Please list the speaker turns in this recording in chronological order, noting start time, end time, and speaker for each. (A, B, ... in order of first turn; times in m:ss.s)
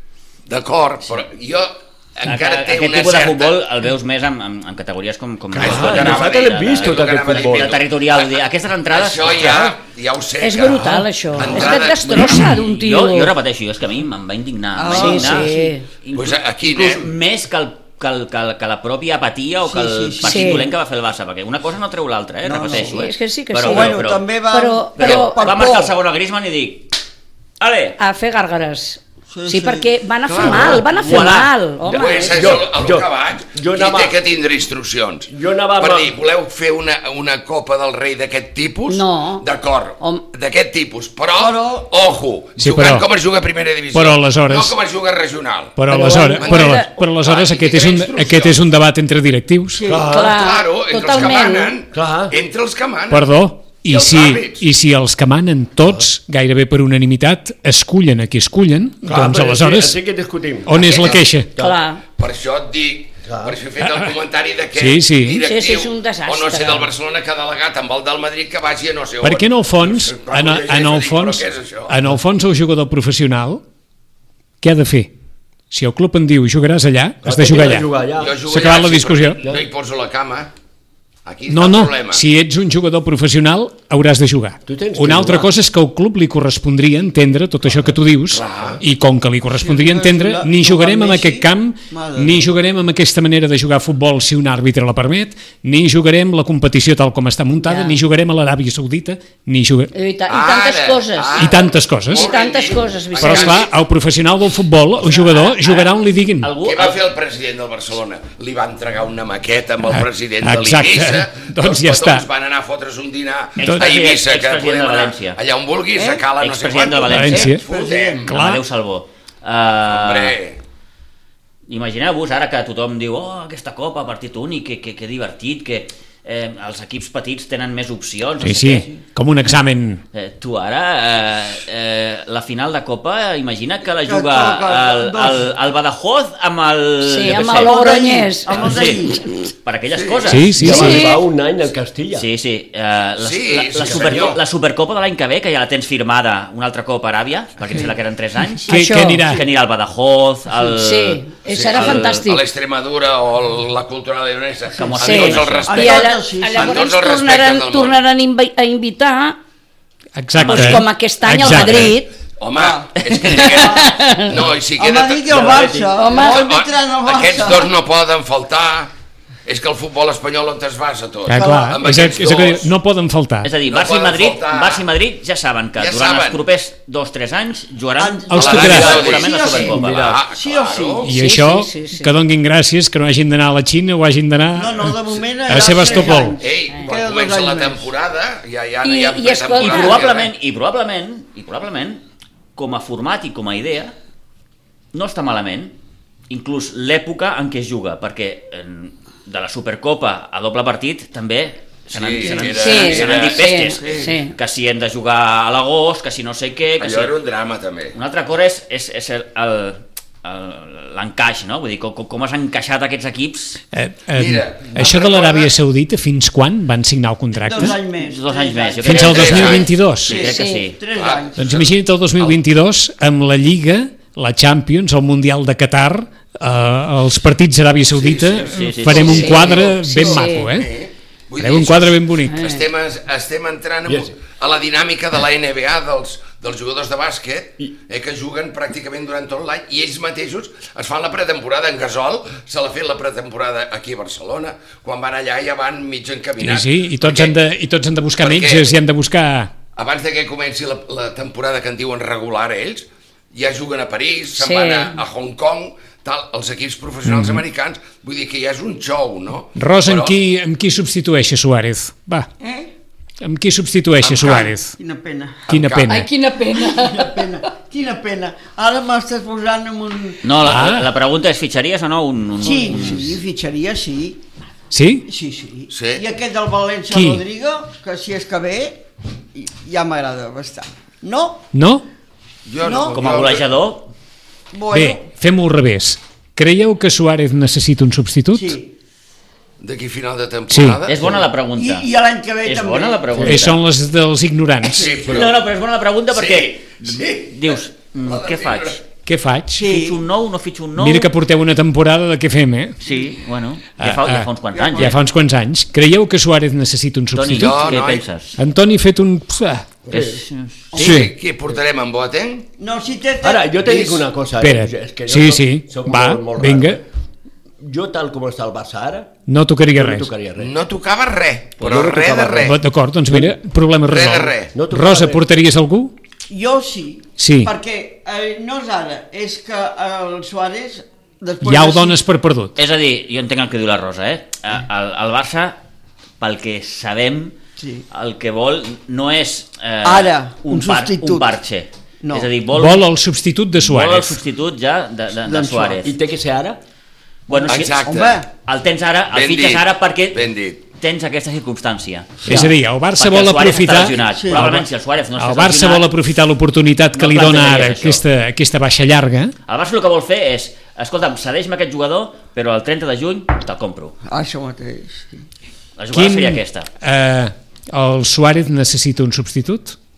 0:00.5-0:03.6 A
0:02.2-0:09.6 B
0:05.5-0:12.6 A
0:05.5-0:07.7 C
0:09.4-0:09.7 C
0:10.4-0:13.3 D
0:12.4-0:24.2 B
0:14.8-0:15.7 E
0:14.9-0:15.8 D
0:16.1-0:17.1 A
0:19.7-0:20.6 E
0:20.2-0:20.7 D
0:22.4-0:23.0 E
0:22.7-0:25.5 D
0:23.6-0:25.9 E
0:25.0-0:26.9 B
0:27.6-0:28.0 B
0:28.0-0:32.4 D
0:29.3-0:30.8 E
0:30.3-0:30.9 A
0:30.4-0:34.2 C
0:31.8-0:45.8 A
0:35.3-0:36.1 C
0:38.9-0:39.4 D
0:41.4-0:41.9 E
0:42.6-0:43.1 F
0:43.9-0:44.7 F
0:45.8-0:49.8 F
0:45.9-0:46.9 D
0:46.4-0:48.6 A
0:49.8-0:50.1 E
0:49.9-0:50.4 C
0:50.1-0:51.8 D
0:50.1-0:54.6 A
0:51.9-0:52.3 C
0:53.1-1:00.0 F
0:59.0-1:01.8 C
1:00.6-1:01.5 F
1:00.7-1:01.2 A
1:01.5-1:02.0 D
1:02.2-1:11.9 A
1:03.2-1:03.6 C
1:03.8-1:04.1 F
1:04.8-1:05.4 F
1:05.4-1:06.9 D
1:09.2-1:13.6 F
1:14.6-1:15.1 F
1:15.7-1:17.9 F
1:17.2-1:18.4 C
1:18.2-1:20.5 A
1:18.4-1:19.4 F
1:21.2-1:22.2 A
1:21.5-1:39.9 F
1:24.7-1:25.5 C
1:27.6-1:28.0 C
1:28.3-1:28.8 A
1:29.6-1:32.5 E
1:37.6-1:38.0 D
1:39.9-1:43.7 D
1:40.3-1:43.7 A
1:41.4-1:42.3 F
1:43.2-1:46.5 F
1:45.0-1:45.5 A
1:46.4-1:47.0 B
1:46.6-1:58.3 A
1:49.9-1:52.2 F
1:53.6-1:55.4 B
1:56.0-1:56.2 E
1:56.4-1:57.6 B
1:57.1-1:57.6 F
1:57.4-1:58.3 E
1:58.2-2:00.4 B
1:58.3-1:58.6 F
1:59.9-2:00.6 A
2:01.7-2:08.9 B
2:08.4-2:10.0 F
2:10.1-2:17.8 B
2:14.0-2:15.5 E
2:17.0-2:18.8 D
2:17.4-2:19.2 E
2:18.5-2:21.0 B
2:19.9-2:20.3 A
2:20.2-2:21.0 F
2:20.6-2:22.3 C
2:20.7-2:21.2 D
2:22.1-2:32.2 B
2:23.2-2:24.4 A
2:23.8-2:24.4 C
2:28.6-2:29.3 D
2:28.7-2:29.4 F
2:30.6-2:32.4 D
2:31.4-2:38.0 A
2:34.7-2:36.0 B
2:35.0-2:39.4 D
2:35.7-2:36.8 E
2:40.2-2:42.0 F
2:40.4-2:40.8 B
2:40.4-2:42.1 D
2:42.4-2:48.9 A
2:42.5-2:42.9 E
2:43.3-2:44.4 D
2:43.6-2:43.8 E
2:44.8-2:47.7 E
2:45.3-2:46.0 C
2:45.9-2:46.4 D
2:49.4-2:52.7 A
2:51.3-2:53.5 F
2:51.4-2:51.8 E
2:53.4-3:00.1 B
2:53.6-2:54.8 A
2:55.8-2:56.4 A
2:58.0-3:01.1 E
2:58.3-2:59.0 F
2:58.3-3:01.1 A
2:58.6-3:00.2 C
3:01.0-3:06.4 F
3:01.1-3:02.2 D
3:04.5-3:07.9 E
3:06.4-3:10.3 A
3:08.8-3:10.0 D
3:09.6-3:12.0 B
3:12.6-3:13.9 B
3:14.9-3:15.7 B
3:16.3-3:27.1 B
3:21.9-3:24.1 A
3:22.3-3:24.3 D
3:26.8-3:27.9 A
3:27.9-3:33.6 B
3:33.7-3:37.8 F
3:34.1-3:35.6 A
3:37.4-3:41.5 E
3:37.6-3:40.8 B
3:38.8-3:40.2 F
3:38.9-3:39.7 A
3:40.2-3:40.7 D
3:40.9-3:42.3 A
3:41.4-3:50.7 F
3:47.9-3:49.8 A
3:48.5-3:49.6 B
3:49.1-3:50.5 D
3:50.4-4:07.4 A
3:51.4-3:52.4 F
3:52.3-3:52.6 D
3:53.8-3:54.2 C
4:06.4-4:09.5 F
4:08.2-4:08.8 A
4:09.8-4:20.2 A
4:14.4-4:15.0 D
4:17.0-4:17.4 F
4:19.6-4:22.3 F
4:22.4-4:22.7 E
4:23.2-4:24.7 F
4:24.0-4:24.5 A
4:24.8-4:25.4 E
4:25.5-4:26.0 A
4:25.5-4:26.1 F
4:25.9-4:27.4 D
4:26.5-4:30.2 E
4:30.2-4:33.2 B
4:30.4-4:30.9 F
4:32.4-4:34.2 E
4:34.7-4:35.0 F
4:35.0-4:41.5 E
4:35.7-4:36.0 A
4:36.9-4:37.2 F
4:41.5-4:41.8 F
4:42.4-4:43.5 A
4:42.6-4:43.0 E
4:42.9-4:43.9 B
4:44.5-4:45.0 E
4:44.7-4:48.6 F
4:48.3-4:48.7 E
4:49.6-4:51.2 A
4:50.5-4:50.8 F
4:50.9-4:51.9 B
4:51.5-4:53.4 E
4:52.4-4:53.6 B
4:53.2-4:54.9 F
4:54.6-4:55.4 A
4:55.0-4:58.8 B
4:56.1-4:58.8 A
4:59.0-4:59.6 F
4:59.5-5:00.0 E
4:59.6-5:01.1 B
5:00.8-5:02.8 F
5:02.8-5:05.0 B
5:03.8-5:07.8 F
5:04.5-5:05.0 E
5:07.1-5:08.4 B
5:07.3-5:08.0 A
5:08.4-5:09.8 F
5:09.9-5:10.2 C
5:09.9-5:10.8 B
5:10.7-5:11.0 E
5:10.7-5:12.5 A
5:10.8-5:11.1 F
5:12.6-5:14.0 E
5:13.2-5:16.8 C
5:14.4-5:16.8 F
5:17.6-5:19.1 C
5:19.3-5:20.1 F
5:19.7-5:20.5 C
5:20.4-5:22.6 A
5:21.6-5:22.6 C
5:22.4-5:25.9 F
5:23.1-5:23.4 C
5:23.8-5:24.5 A
5:24.5-5:25.2 C
5:26.3-5:32.0 E
5:27.2-5:27.5 F
5:31.4-5:32.6 F
5:32.6-5:35.6 B
5:36.2-5:37.4 B
5:37.6-5:37.8 E
5:37.9-5:42.8 B
5:39.8-5:41.4 E
5:42.0-5:42.3 E
5:42.5-5:44.2 F
5:43.6-5:45.9 B
5:45.2-5:45.8 E
5:45.8-5:46.6 C
5:47.3-5:47.8 B
5:47.4-5:48.3 E
5:47.5-5:48.2 A
5:48.4-5:50.2 B
5:49.1-5:50.6 A
5:50.8-5:55.9 B
5:52.2-5:54.6 F
5:54.1-5:54.5 E
5:55.2-5:59.3 F
5:56.9-5:58.0 B
5:59.5-6:03.9 B
6:04.1-6:05.2 E
6:05.8-6:06.7 B
6:05.9-6:09.8 F